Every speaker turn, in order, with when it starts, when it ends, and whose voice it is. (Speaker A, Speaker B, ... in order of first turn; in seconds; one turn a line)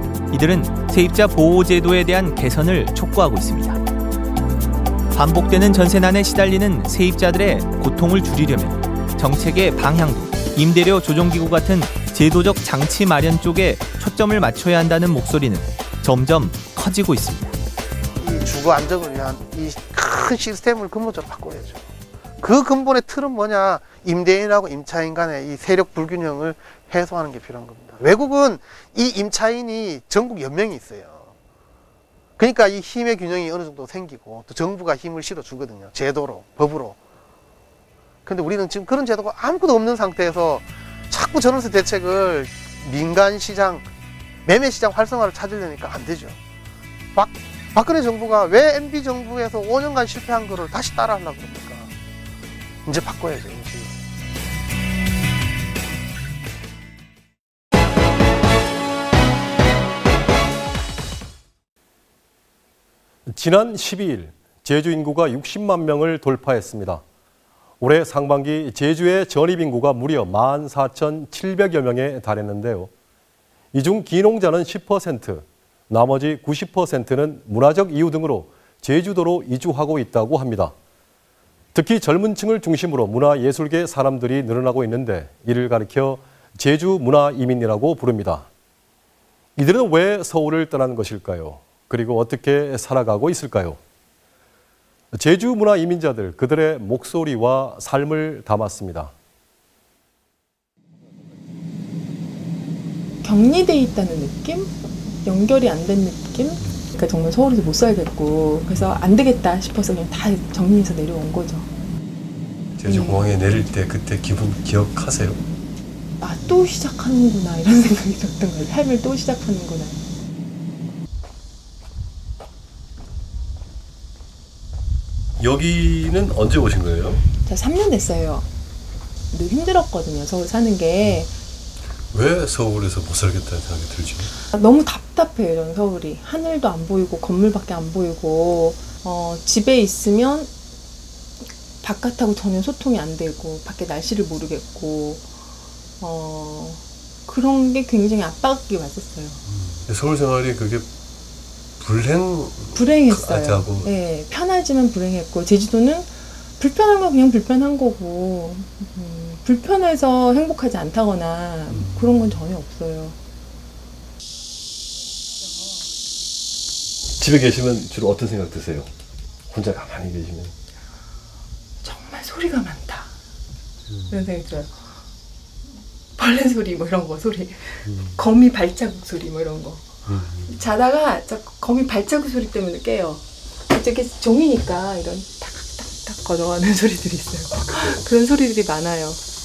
Speaker A: 0.3-3.8
Speaker A: 5.1-17.5
Speaker B: 18.2-21.8
Speaker B: 22.4-31.3
Speaker B: 32.4-37.0
Speaker B: 38.2-43.9
Speaker B: 44.4-46.4
Speaker B: 47.1-51.9
Speaker B: 52.9-54.0
Speaker C: 63.3-67.0
Speaker C: 67.8-72.9
Speaker C: 73.7-80.7
Speaker C: 81.7-88.5
Speaker C: 89.6-93.8
Speaker C: 95.1-99.1
Speaker D: 103.2-111.7
Speaker C: 112.8-115.4
Speaker D: 112.8-113.2
Speaker D: 116.2-120.0
Speaker C: 125.4-127.2
Speaker D: 127.4-128.5
Speaker D: 129.3-131.3
Speaker C: 132.1-134.3
Speaker D: 134.5-140.5
Speaker D: 141.8-145.3
Speaker D: 146.0-149.4
Speaker C: 149.5-150.9
Speaker C: 151.8-153.9
Speaker D: 152.7-163.2
Speaker C: 161.7-162.4
Speaker C: 167.2-168.9
Speaker C: 169.5-170.5
Speaker D: 171.8-173.1
Speaker D: 174.1-174.7
Speaker D: 176.2-179.9
Speaker C: 177.8-178.2
Speaker C: 180.1-180.5
Speaker D: 180.4-189.2